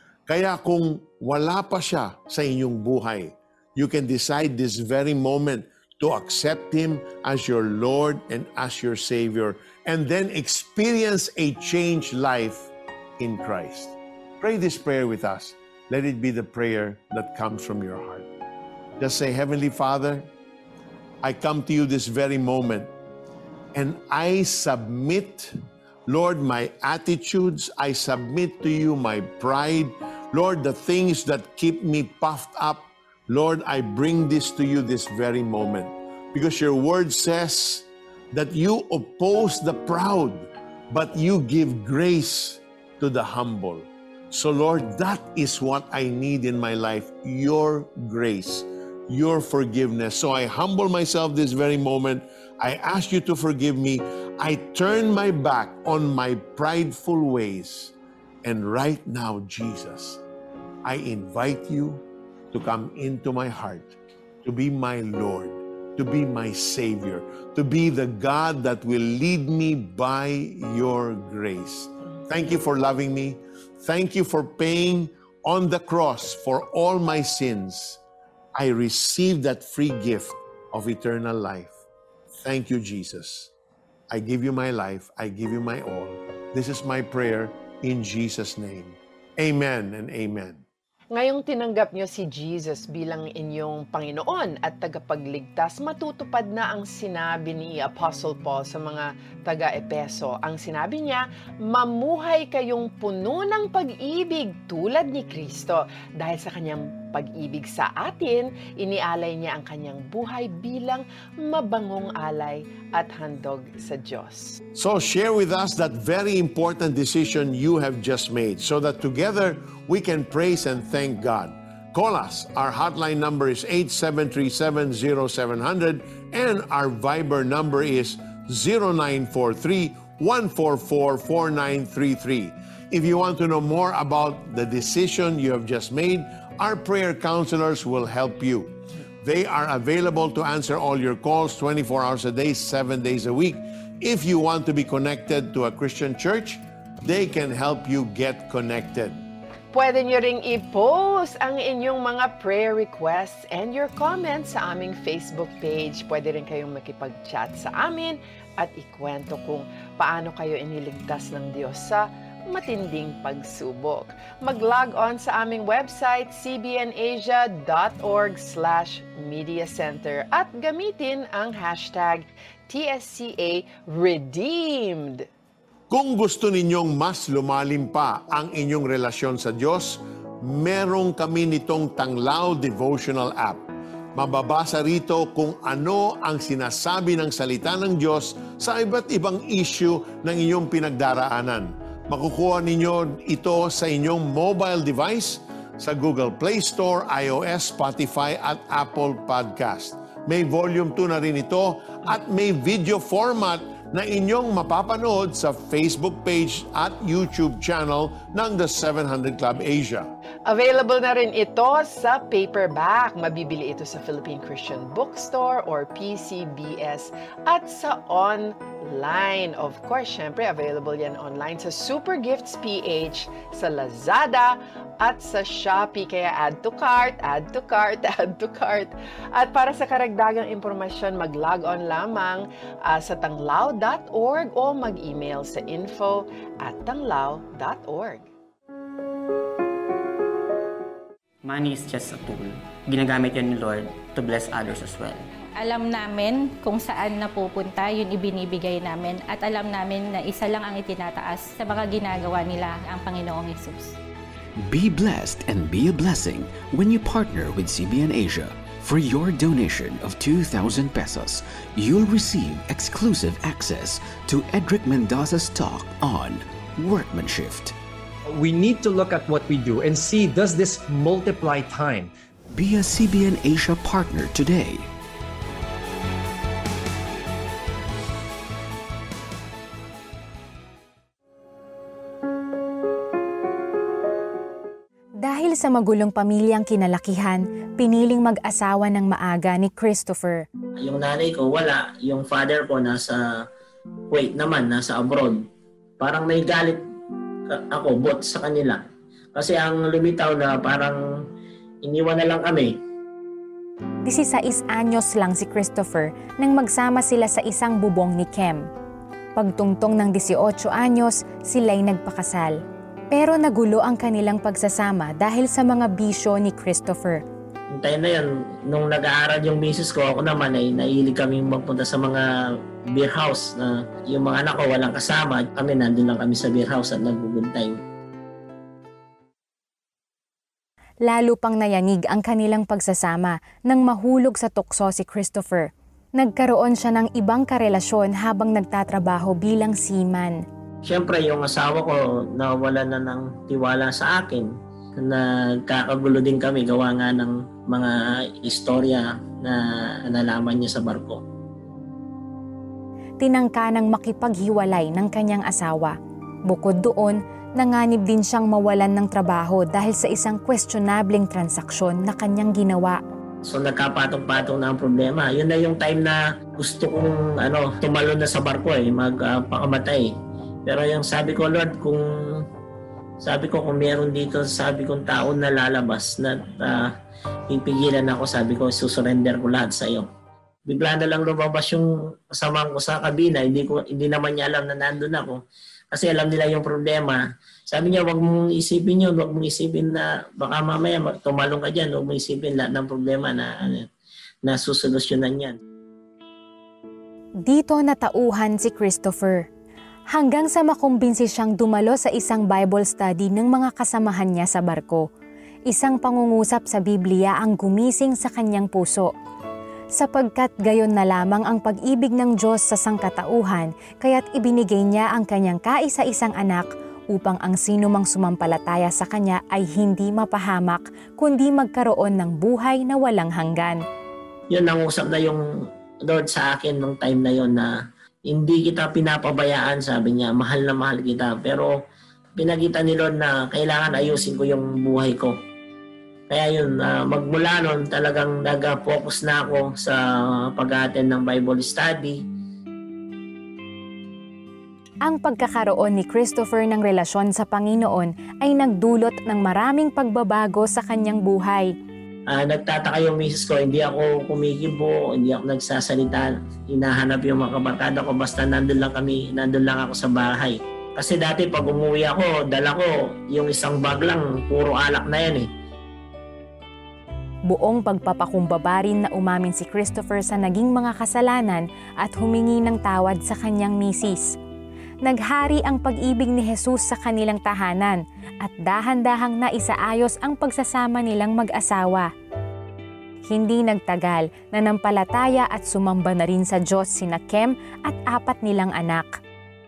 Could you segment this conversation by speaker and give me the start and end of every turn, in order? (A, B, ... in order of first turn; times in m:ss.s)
0:00.3-0:18.3 A
0:19.0-0:20.3 A
0:21.2-0:22.9 A
0:23.7-0:25.5 A
0:26.1-1:00.2 A
1:00.8-1:18.0 A
1:18.6-1:21.7 A
1:22.4-1:23.5 A
1:24.1-1:30.6 A
1:31.1-1:54.6 B
1:54.8-2:29.3 A
2:29.7-2:55.3 B
2:55.9-3:03.6 A
3:04.2-3:30.1 A
3:30.5-3:58.3 B
4:01.4-4:05.3 C
4:05.6-4:14.0 D
4:14.6-4:27.8 E
4:28.3-4:32.1 F
4:32.5-4:34.9 E
4:45.2-4:50.4 G
4:50.8-4:53.5 H
4:54.1-4:55.4 H
4:56.0-4:56.8 H
4:57.5-4:58.8 H
4:59.4-5:01.0 H
5:01.8-5:02.8 H
5:04.0-5:08.6 G
5:09.4-5:12.5 G
5:13.1-5:17.2 G
5:17.7-5:22.2 H
5:22.9-5:27.8 H
5:31.1-5:40.4 G
5:40.8-5:51.2 H
5:53.2-5:56.0 G
5:56.5-6:03.0 G
6:03.4-6:10.1 H
6:10.7-6:12.4 H
6:13.2-6:16.9 H
6:17.5-6:20.1 H
6:20.7-6:25.4 H
6:25.9-6:33.9 H
6:34.4-6:35.6 H
6:37.4-6:39.5 G
6:40.1-6:45.1 G
6:45.7-6:49.1 G
6:50.0-7:03.8 G
7:04.5-7:05.4 H
7:06.0-7:07.7 H
7:08.3-7:11.7 H
7:12.4-7:15.3 H
7:16.3-7:22.2 H
7:25.1-7:31.7 G
7:32.3-7:45.5 H
7:47.5-7:54.3 G
7:55.0-8:02.1 G
8:03.3-8:09.2 G